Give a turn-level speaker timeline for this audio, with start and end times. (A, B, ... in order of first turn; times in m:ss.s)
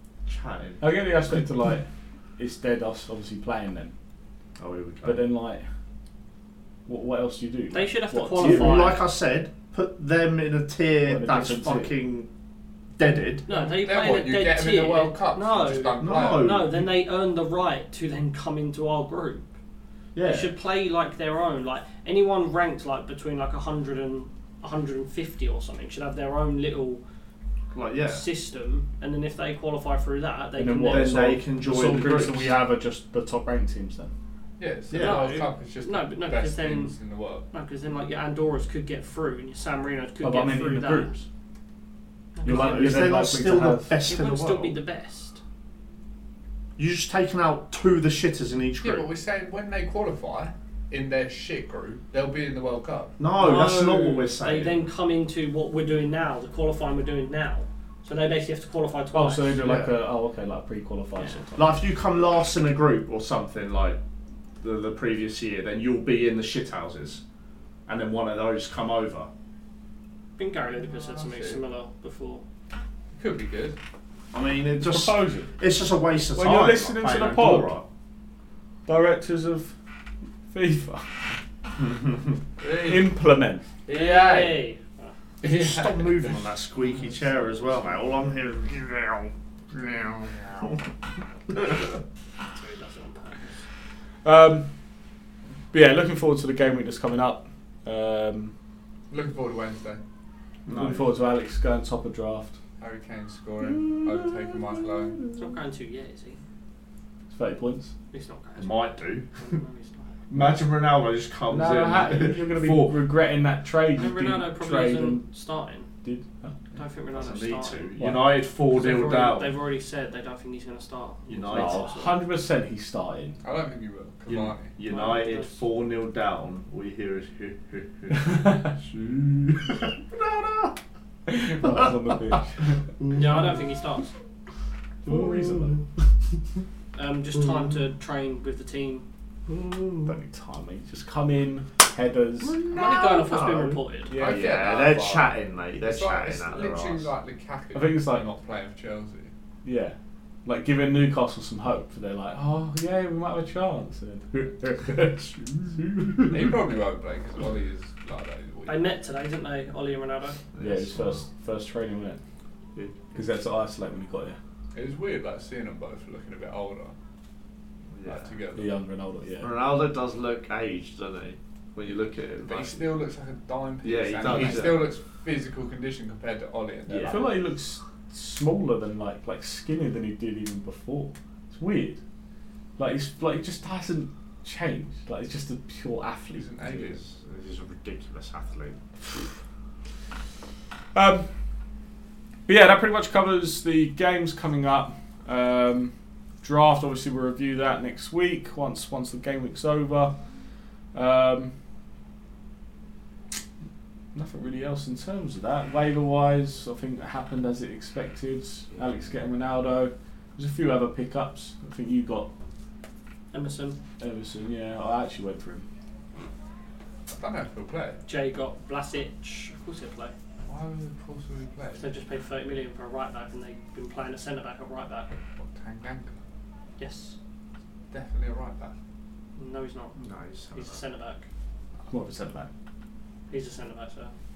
0:00.3-0:00.8 A
0:00.8-0:03.9 B
0:04.6-0:05.3 A
0:05.0-0:05.7 B
0:06.9-0:09.0 B
0:07.7-0:09.0 C
0:08.4-0:12.3 A
0:11.0-0:12.0 B
0:13.0-0:13.5 A
0:13.5-0:19.5 C
0:13.5-0:16.5 D
0:16.0-0:16.9 A
0:20.2-0:20.5 A
0:20.2-0:27.0 C
0:27.7-0:28.3 A
0:28.0-0:31.2 C
0:30.6-0:34.1 B
0:30.8-0:32.6 A
0:34.6-0:37.5 D
0:34.9-0:35.4 A
0:35.0-0:37.0 C
0:37.5-0:41.2 C
0:40.2-0:41.2 B
0:42.4-0:43.1 C
0:42.4-0:44.0 B
0:42.4-0:44.8 A
0:44.0-0:45.4 C
0:46.8-0:49.1 A
0:48.8-0:53.2 D
0:53.2-0:54.8 A
0:53.4-0:59.8 C
0:59.1-1:01.7 B
0:59.6-0:59.9 A
1:01.6-1:04.0 A
1:04.6-1:07.2 A
1:07.9-1:09.3 A
1:10.4-1:12.4 C
1:10.8-1:11.6 D
1:13.1-1:13.8 D
1:14.3-1:17.9 A
1:14.8-1:15.5 B
1:16.3-1:17.7 B
1:18.9-1:19.8 B
1:20.5-1:21.4 B
1:21.8-1:22.4 A
1:22.6-1:23.1 D
1:22.6-1:23.7 B
1:23.9-1:24.6 D
1:23.9-1:25.2 C
1:25.4-1:30.8 A
1:25.4-1:26.4 D
1:31.5-1:31.9 A
1:32.5-1:33.6 C
1:34.2-1:34.7 B
1:35.7-1:38.5 B
1:39.1-1:40.0 D
1:40.7-1:41.1 A
1:40.7-1:42.6 B
1:42.8-1:45.2 D
1:43.6-1:45.4 A
1:45.4-1:46.4 C
1:47.3-1:47.9 B
1:48.1-1:50.2 C
1:48.6-1:49.3 A
1:50.3-1:53.0 A
1:50.3-1:50.6 B
1:51.5-1:55.2 B
1:54.0-1:55.9 C
1:56.0-1:56.6 B
1:56.7-1:58.0 C
1:57.1-1:59.5 A
1:58.0-1:58.3 B
1:58.7-2:02.2 C
2:01.3-2:01.9 A
2:01.5-2:03.4 B
2:03.4-2:04.8 D
2:04.3-2:10.7 A
2:04.9-2:05.6 C
2:08.2-2:08.7 B
2:11.3-2:12.8 B
2:11.6-2:11.9 A
2:13.0-2:13.6 A
2:13.1-2:14.1 C
2:15.0-2:15.8 B
2:15.1-2:15.9 A
2:16.9-2:19.1 C
2:17.4-2:17.8 A
2:19.5-2:20.2 A
2:20.1-2:22.6 B
2:22.4-2:27.1 A
2:22.7-2:24.2 C
2:24.1-2:24.4 B
2:24.1-2:29.3 D
2:27.7-2:28.2 B
2:29.6-2:36.6 B
2:36.3-2:39.0 D
2:38.7-2:40.4 C
2:40.5-2:41.2 A
2:40.6-2:42.2 B
2:42.8-2:43.1 A
2:43.1-2:44.4 B
2:44.7-2:47.0 D
2:47.9-2:48.3 A
2:48.0-2:48.7 D
2:48.6-2:49.5 B
2:49.4-2:52.8 A
2:52.4-2:57.3 D
2:53.8-2:54.9 A
2:54.3-2:54.6 B
2:56.9-2:57.2 A
2:57.0-3:02.0 B
3:02.8-3:06.8 B
3:06.3-3:07.0 D
3:06.8-3:08.8 A
3:10.9-3:11.3 B
3:12.5-3:20.2 B
3:20.9-3:21.5 B
3:24.1-3:32.3 B
3:33.3-3:33.8 C
3:34.0-3:35.6 B
3:37.1-3:38.0 D
3:38.1-3:40.1 C
3:40.4-3:41.9 D
3:41.8-3:45.2 C
3:45.4-3:46.2 D
3:46.8-3:47.2 C
3:47.9-3:48.8 D
3:49.4-3:50.0 C
3:50.0-3:50.8 A
3:50.5-3:51.3 C
3:51.9-3:52.5 B
3:53.3-3:54.1 C